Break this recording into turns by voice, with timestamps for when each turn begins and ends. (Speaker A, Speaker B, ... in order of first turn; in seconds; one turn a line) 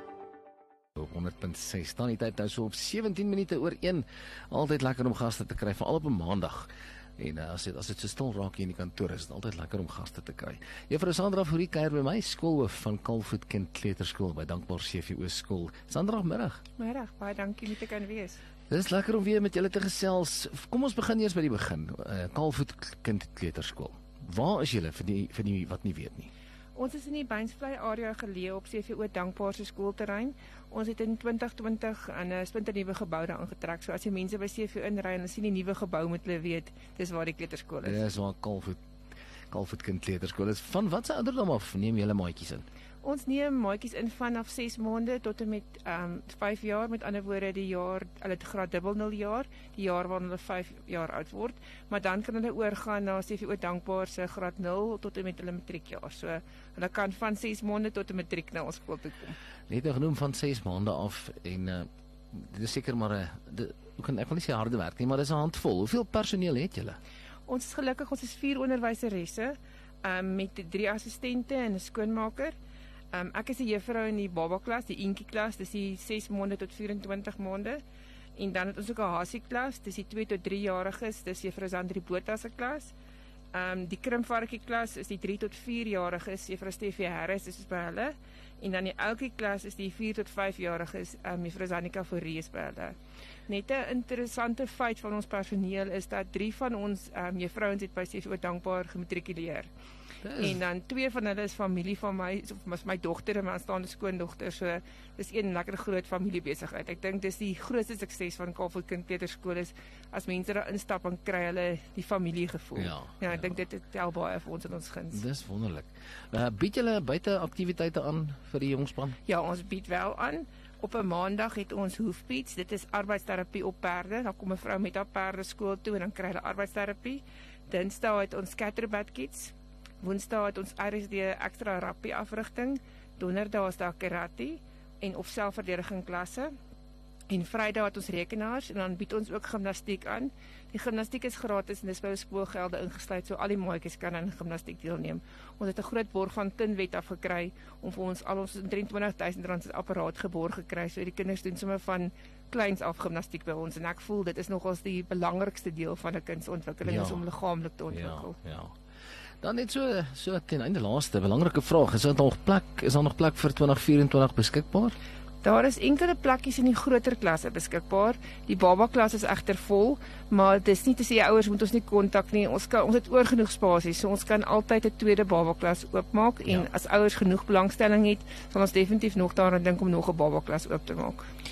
Speaker A: 0.9-16.6
Speaker B: 16.8-18.4
Speaker A: 18.7-26.3
Speaker B: 26.7-38.0
Speaker A: 37.8-38.8
Speaker A: 39.5-42.6
Speaker B: 43.0-59.4
Speaker A: 59.7-67.0
Speaker B: 67.5-72.5
Speaker B: 73.1-77.8
Speaker B: 78.4-82.9
Speaker B: 83.5-93.0
Speaker B: 93.5-99.7
Speaker A: 100.2-100.6
Speaker B: 100.3-115.2
Speaker A: 112.8-113.6
Speaker A: 115.1-119.2
Speaker B: 119.2-136.5
Speaker B: 137.3-158.3
Speaker A: 156.8-157.2
Speaker A: 157.9-158.7
Speaker A: 159.4-164.9
Speaker B: 165.4-181.2